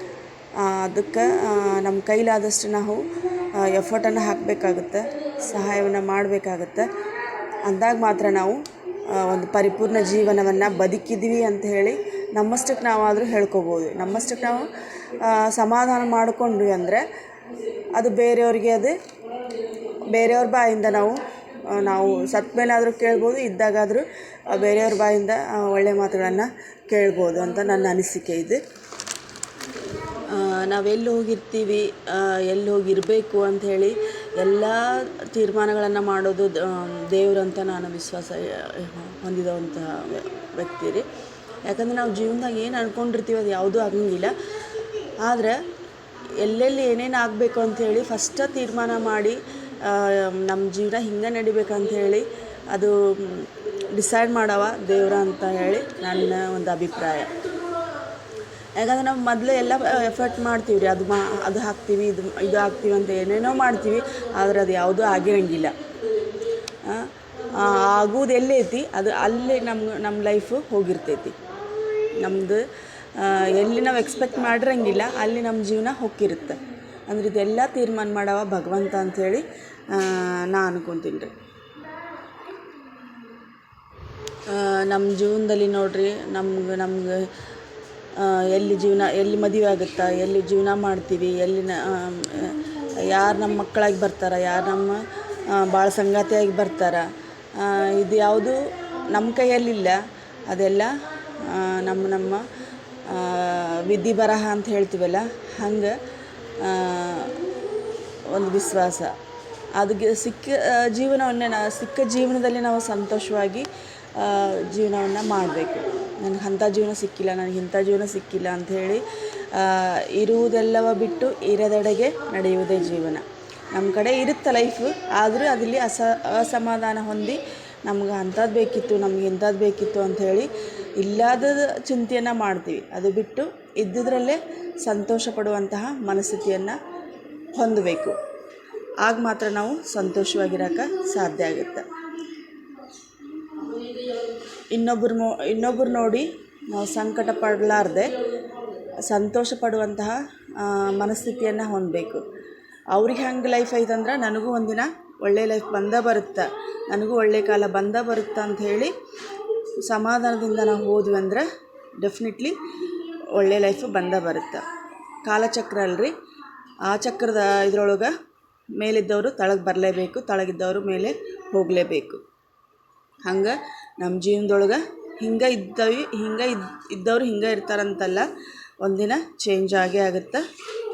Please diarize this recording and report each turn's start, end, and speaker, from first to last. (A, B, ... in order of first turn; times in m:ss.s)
0:00.6-0:06.9 A
0:07.6-0:17.0 A
0:17.9-0:19.0 A
0:20.0-0:28.6 A
0:30.3-0:41.1 A
0:41.6-0:44.3 A
0:45.2-0:45.6 A
0:46.3-0:57.4 A
0:58.8-1:05.7 A
1:06.8-1:11.4 A
1:12.2-1:12.6 A
1:13.1-1:21.3 A
1:24.5-1:27.3 A
1:28.2-1:42.4 A
1:43.0-1:46.0 A
1:46.6-1:47.4 A
1:48.2-1:49.1 A
1:49.8-2:16.8 A
2:17.5-2:18.2 A
2:19.0-2:21.9 A
2:24.7-2:28.2 A
2:29.0-2:32.2 A
2:32.9-2:38.9 A
2:39.8-2:41.4 A
2:42.0-2:42.6 A
2:43.3-2:44.6 A
2:45.2-2:46.1 A
2:46.8-2:48.1 A
2:48.7-2:52.2 A
2:53.2-2:58.3 A
2:58.8-3:00.4 A